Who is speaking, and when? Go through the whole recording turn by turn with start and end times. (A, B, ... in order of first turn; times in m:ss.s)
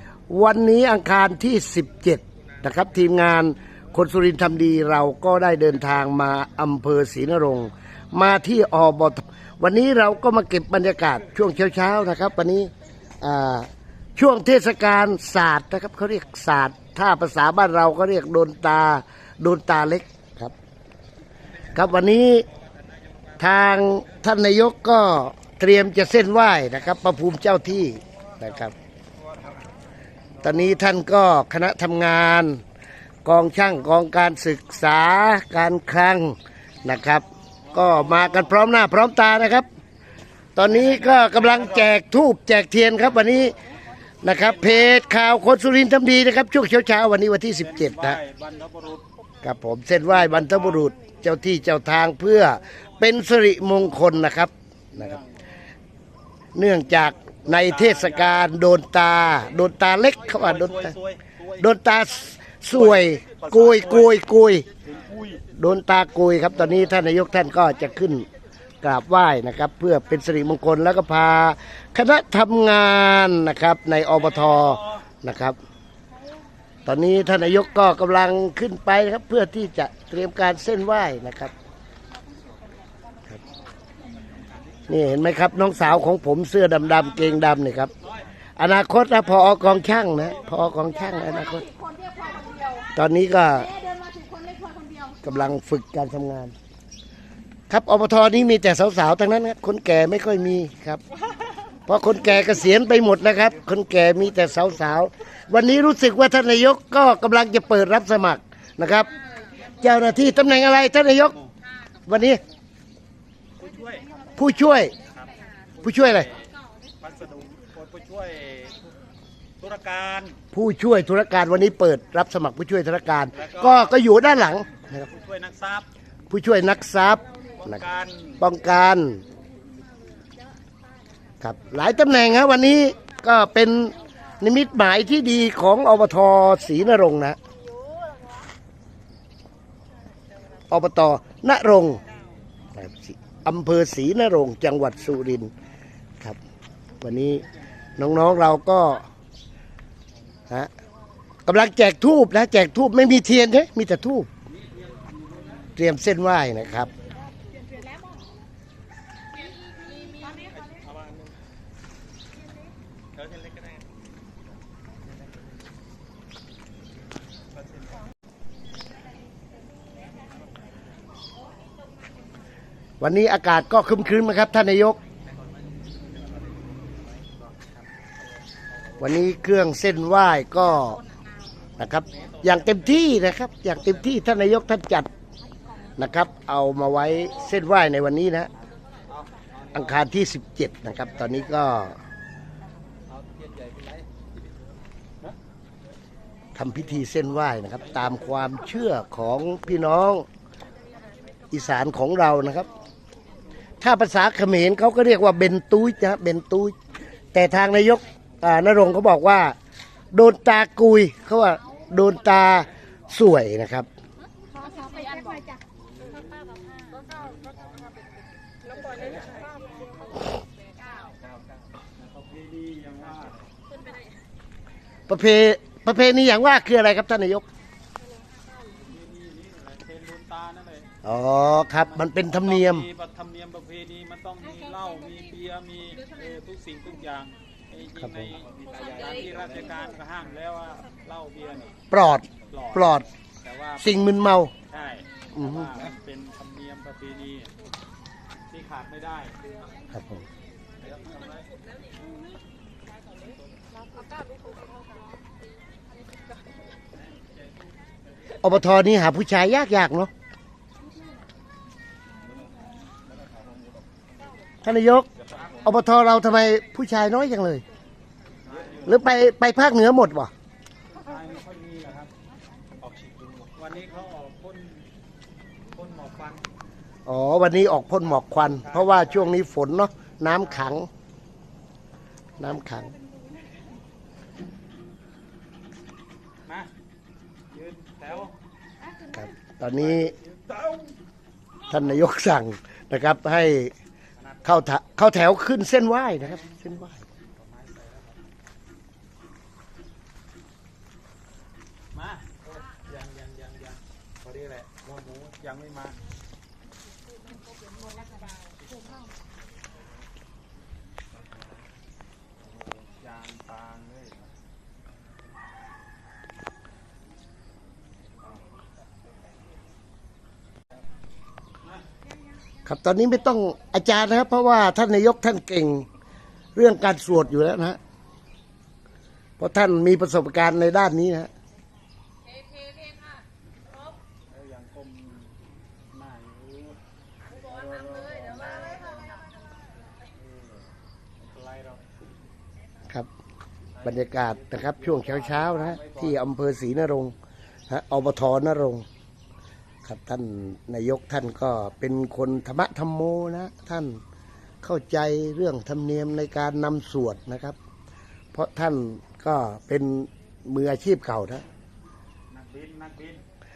0:00.3-0:20.5 A
0:21.7-0:22.5 A
0:23.4-0:28.7 A
0:29.3-0:29.6 B
0:30.4-0:32.6 A
0:33.2-0:39.6 A
0:37.6-0:38.6 B
0:40.6-0:43.6 A
0:40.7-0:41.9 B
0:43.0-0:43.5 B
0:44.2-0:48.2 A
0:44.4-0:44.7 B
0:47.6-0:49.1 B
0:49.4-0:55.2 A
0:50.1-0:50.8 B
0:54.9-0:55.5 B
0:56.6-1:01.0 A
0:57.0-0:58.5 B
1:00.4-1:01.6 B
1:01.6-1:04.7 A
1:02.7-1:04.2 B
1:04.8-1:05.4 B
1:05.5-1:08.3 A
1:08.8-1:15.6 A
1:14.2-1:15.0 B
1:16.8-1:21.5 A
1:24.0-1:24.8 B
1:24.9-1:27.9 A
1:28.0-1:28.2 B
1:28.6-1:31.7 A
1:29.1-1:30.7 B
1:31.8-1:32.7 C
1:32.9-1:33.8 A
1:33.8-1:35.0 C
1:35.2-1:36.5 A
1:37.7-1:41.0 A
1:41.9-1:49.1 A
1:49.6-1:51.4 A
1:52.0-1:52.4 A
1:53.6-1:54.2 B
1:54.3-1:55.0 A
1:55.0-1:58.9 B
1:55.8-1:56.3 A
1:59.6-2:00.4 B
2:00.5-2:05.0 A
2:03.3-2:04.1 B
2:04.8-2:05.9 B
2:06.3-2:07.8 A
2:07.6-2:08.4 B
2:08.4-2:09.2 A
2:11.4-2:17.4 A
2:20.7-2:22.0 A
2:22.7-2:25.5 A
2:27.0-2:27.4 A
2:27.4-2:28.0 B
2:28.0-2:29.1 A
2:31.4-2:34.3 A
2:34.5-2:35.7 B
2:35.8-2:36.9 A
2:40.0-2:41.0 B
2:53.0-2:55.0 A
2:56.0-2:56.5 B
2:57.0-2:59.1 B
2:59.0-3:01.0 A
3:01.8-3:05.1 A
3:02.2-3:02.9 B
3:06.0-3:08.5 A
3:09.1-3:10.0 B
3:09.7-3:12.0 A
3:13.1-3:14.0 B
3:16.5-3:20.2 A
3:21.5-3:22.7 A
3:23.8-3:26.8 A
3:27.3-3:29.5 A
3:30.1-3:33.9 A
3:34.8-3:35.4 C
3:35.8-3:40.4 B
3:41.0-3:43.5 B
3:45.1-3:47.4 A
3:48.6-4:01.8 B
3:51.0-3:52.9 A
3:58.0-3:58.3 A
4:01.9-4:03.1 A
4:02.5-4:04.0 B
4:03.8-4:04.5 A
4:04.7-4:07.5 B
4:05.3-4:05.8 A
4:08.5-4:09.5 B
4:09.9-4:10.2 A
4:10.8-4:11.6 B
4:18.4-4:20.1 A
4:22.2-4:23.8 B
4:24.6-4:25.1 A
4:25.2-4:25.6 B
4:25.6-4:27.6 A
4:28.4-4:29.0 B
4:28.8-4:30.3 A
4:30.9-4:32.1 B
4:32.8-4:34.8 B
4:35.7-4:36.4 B
4:37.0-4:40.9 A
4:38.6-4:39.3 B
4:40.4-4:40.7 B
4:42.4-4:43.0 A
4:46.4-4:46.7 B
4:47.5-4:48.3 B
4:49.1-4:50.2 A
4:49.9-4:50.9 B
4:51.7-4:53.7 A
4:54.2-4:54.6 B
4:54.4-4:57.0 A
4:56.2-4:56.6 B
4:57.2-4:58.2 B
5:01.9-5:06.0 B
5:12.4-5:14.3 B
5:22.6-5:25.8 A
5:26.5-5:27.8 A
5:29.4-5:31.3 A
5:34.3-5:35.4 B
5:35.9-5:39.3 B
5:40.0-5:40.7 B
5:41.2-5:41.8 B
5:43.7-5:46.2 B
5:43.8-5:47.1 A
5:47.7-5:48.8 A
5:49.8-5:54.0 A
5:54.6-5:57.6 A
5:58.3-6:01.4 A
6:02.3-6:03.2 B